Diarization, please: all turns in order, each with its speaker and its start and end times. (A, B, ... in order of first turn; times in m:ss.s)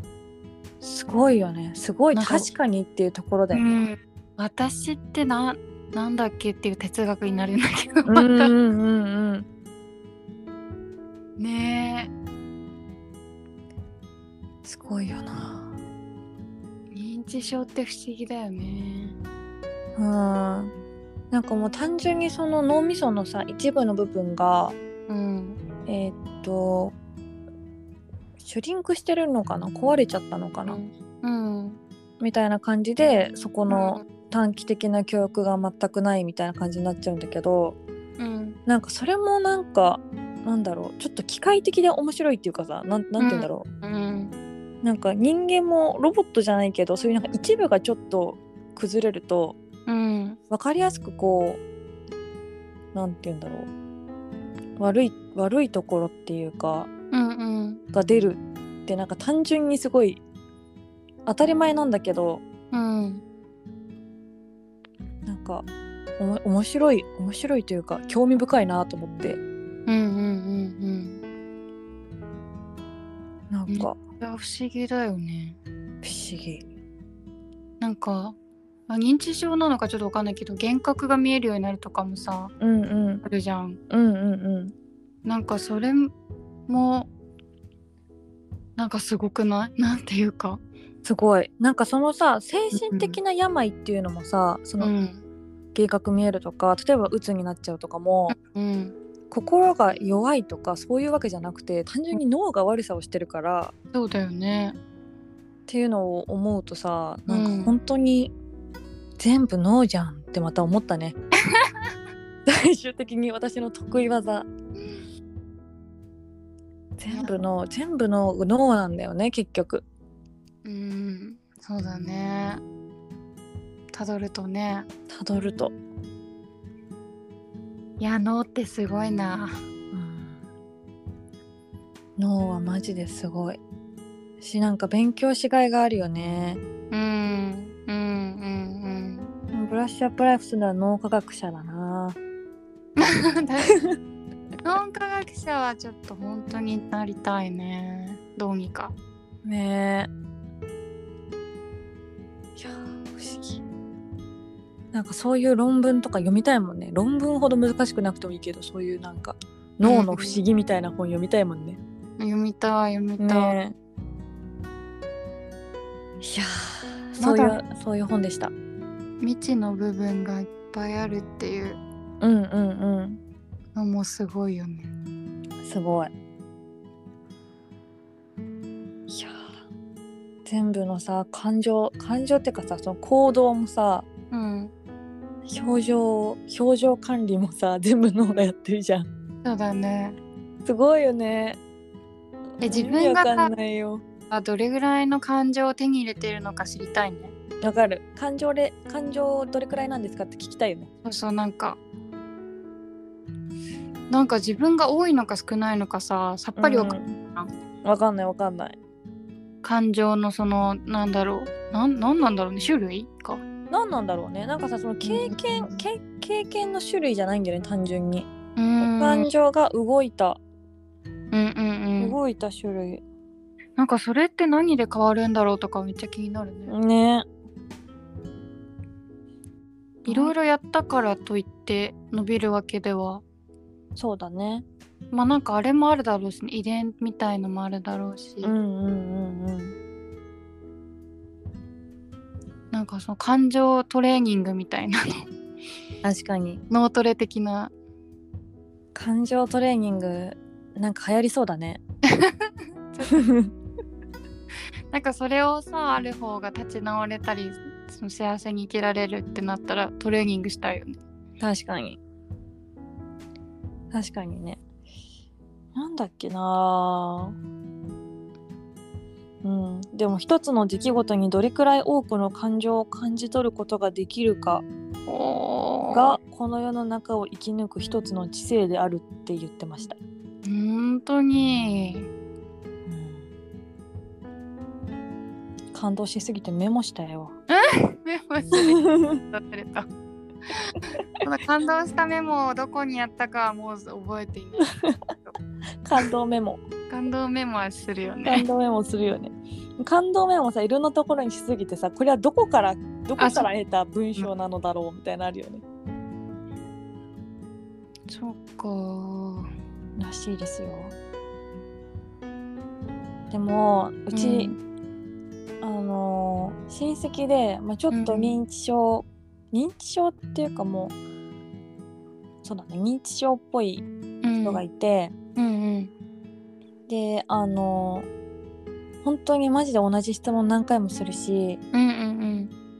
0:00.8-0:03.8 A
0:02.1-0:02.5 B
0:03.5-0:08.5 B
0:08.1-0:09.5 A
0:11.4-0:12.1 B
0:14.6-0:15.7 A
0:16.9-0:19.2 B
0:20.0-0:20.7 A
0:21.3-0:24.8 A
0:25.1-0:25.6 B
0:25.9-0:27.0 A
0:28.4-0:30.8 A
0:30.7-0:31.8 B
0:32.2-0:37.8 A
0:33.7-0:34.0 B
0:38.2-0:38.6 B
0:38.7-0:43.7 A
0:43.2-0:44.3 B
0:44.8-0:49.6 A
0:49.9-0:50.4 B
0:50.5-0:51.6 A
0:52.9-0:53.7 A
0:54.8-0:56.9 A
0:57.1-0:57.8 B
0:57.9-1:00.2 A
1:01.3-1:02.4 A
1:02.7-1:03.2 B
1:05.3-1:05.7 A
1:06.2-1:09.4 A
1:09.9-1:11.2 B
1:13.5-1:14.0 A
1:13.7-1:15.6 B
1:16.0-1:16.6 A
1:17.8-1:18.4 B
1:18.9-1:22.5 B
1:22.6-1:23.2 A
1:23.2-1:23.8 B
1:23.9-1:24.7 A
1:25.2-1:26.1 B
1:26.7-1:27.1 B
1:28.8-1:30.6 B
1:31.0-1:34.9 A
1:32.7-1:33.2 B
1:34.8-1:35.2 B
1:35.8-1:38.4 A
1:38.3-1:39.0 B
1:39.3-1:43.7 A
1:43.9-1:44.8 B
1:45.7-1:48.3 A
1:47.3-1:47.8 B
1:49.2-1:51.2 A
1:52.5-1:54.5 A
1:57.0-1:59.8 A
1:57.1-1:57.4 B
2:00.6-2:02.6 B
2:03.9-2:04.9 B
2:05.1-2:05.8 A
2:08.0-2:09.6 B
2:09.9-2:10.4 A
2:12.2-2:13.6 A
2:14.4-2:16.6 A
2:16.9-2:19.3 B
2:19.5-2:22.2 A
2:23.0-2:23.8 B
2:24.6-2:28.9 B
2:29.4-2:30.1 A
2:32.6-2:33.6 A
2:34.9-2:41.8 A
2:39.8-2:40.4 B
2:42.2-2:43.6 B
2:43.2-2:43.8 A
2:46.2-2:48.5 A
2:47.2-2:47.6 B
2:49.2-2:51.8 B
2:52.2-2:53.2 A
2:53.8-2:54.9 B
2:55.6-2:56.1 A
2:59.1-2:59.4 A
3:00.4-3:04.1 A
3:04.3-3:04.7 B
3:05.5-3:09.1 A
3:09.4-3:10.2 B
3:10.6-3:11.6 A
3:12.6-3:13.5 B
3:12.6-3:14.0 A
3:14.3-3:17.3 B
3:17.6-3:20.9 A
3:21.0-3:21.8 B
3:24.1-3:27.5 B
3:26.6-3:27.2 A
3:27.8-3:28.8 A
3:29.6-3:33.4 B
3:33.7-3:38.3 A
3:35.0-3:35.8 B
3:38.6-3:39.3 B
3:38.8-3:40.4 A
3:41.3-3:42.2 B
3:42.0-3:43.0 A
3:43.8-3:46.7 B
3:46.7-3:47.3 A
3:50.0-3:50.3 A
3:50.1-3:53.2 B
3:54.0-3:54.6 A
3:55.1-3:58.6 B
3:58.4-3:59.8 A
4:02.7-4:05.3 B
4:06.0-4:06.6 A
4:06.7-4:07.7 B
4:09.0-4:11.8 A
4:12.1-4:13.3 B
4:13.0-4:13.5 A
4:14.9-4:21.0 B
4:21.4-4:22.0 A
4:23.9-4:24.6 A
4:25.8-4:27.4 A
4:29.4-4:34.6 A
4:35.1-4:36.2 B
4:35.9-4:40.0 A
4:40.4-4:42.1 B
4:42.9-4:43.3 A
4:45.7-4:47.4 A
4:47.5-4:49.9 B
4:48.5-4:49.2 A
4:50.5-4:55.4 B
4:54.6-4:54.9 A
4:55.8-4:56.6 A
4:56.9-4:58.4 B
4:58.3-5:05.6 A
5:03.2-5:03.5 B
5:08.1-5:09.5 B
5:10.0-5:11.0 A
5:13.3-5:14.6 A
5:14.1-5:14.6 B
5:15.6-5:21.0 A
5:17.9-5:18.4 B
5:22.4-5:25.1 A
5:24.2-5:24.6 B
5:25.4-5:25.9 B
5:26.9-5:28.1 A
5:29.0-5:31.6 A
5:31.7-5:32.5 B